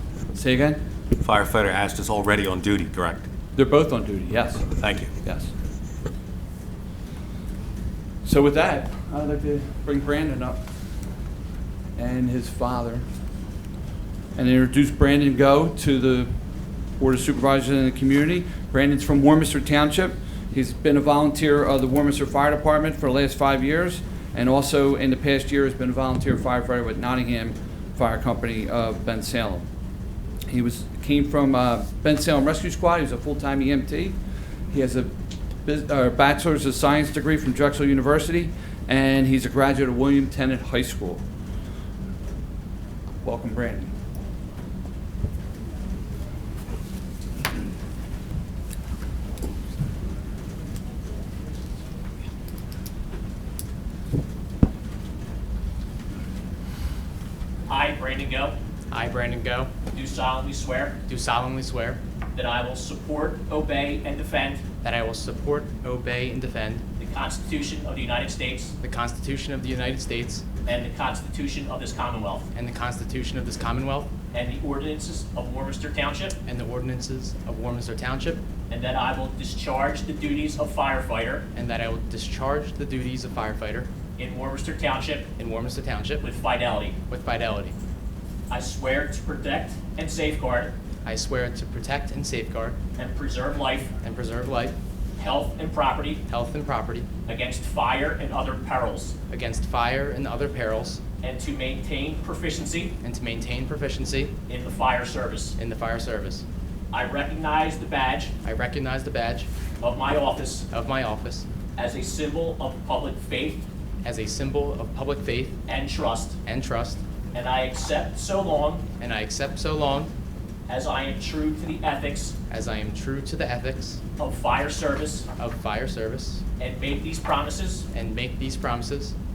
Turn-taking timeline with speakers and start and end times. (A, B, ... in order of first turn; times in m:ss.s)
0:00.3-0:00.8 A
0:01.2-0:03.3 B
0:03.6-0:05.5 A
0:04.8-0:05.1 B
0:08.2-0:10.6 A
0:12.0-0:13.0 A
0:14.4-0:16.3 A
0:17.0-0:29.7 A
0:30.5-0:34.2 A
0:34.7-0:35.1 A
0:35.6-0:41.2 A
0:43.2-0:43.9 A
0:57.7-0:58.6 C
0:58.9-0:59.7 D
0:59.9-1:01.0 C
1:01.0-1:02.0 D
1:02.4-1:04.6 C
1:04.8-1:06.8 D
1:07.0-1:08.7 C
1:08.8-1:10.4 D
1:10.7-1:12.5 C
1:12.5-1:14.1 D
1:14.3-1:16.4 C
1:16.4-1:18.4 D
1:18.7-1:21.4 C
1:21.5-1:23.9 D
1:24.2-1:25.3 C
1:25.3-1:26.3 D
1:26.2-1:27.0 C
1:27.0-1:27.8 D
1:28.5-1:30.7 C
1:31.0-1:32.8 D
1:33.0-1:33.9 C
1:34.0-1:34.8 D
1:35.2-1:36.2 C
1:36.2-1:37.1 D
1:37.3-1:39.1 C
1:39.3-1:41.0 D
1:41.2-1:42.9 C
1:43.0-1:44.4 D
1:44.5-1:45.5 C
1:45.6-1:46.4 D
1:46.9-1:48.3 C
1:48.4-1:49.5 D
1:49.8-1:50.7 C
1:50.6-1:51.4 D
1:51.8-1:53.7 C
1:54.0-1:55.6 D
1:55.7-1:56.4 C
1:56.4-1:57.0 D
1:57.3-1:58.8 C
1:59.0-2:00.1 D
2:00.7-2:02.4 C
2:02.5-2:04.0 D
2:04.2-2:05.3 C
2:05.3-2:06.4 D
2:06.6-2:07.8 C
2:07.9-2:09.1 D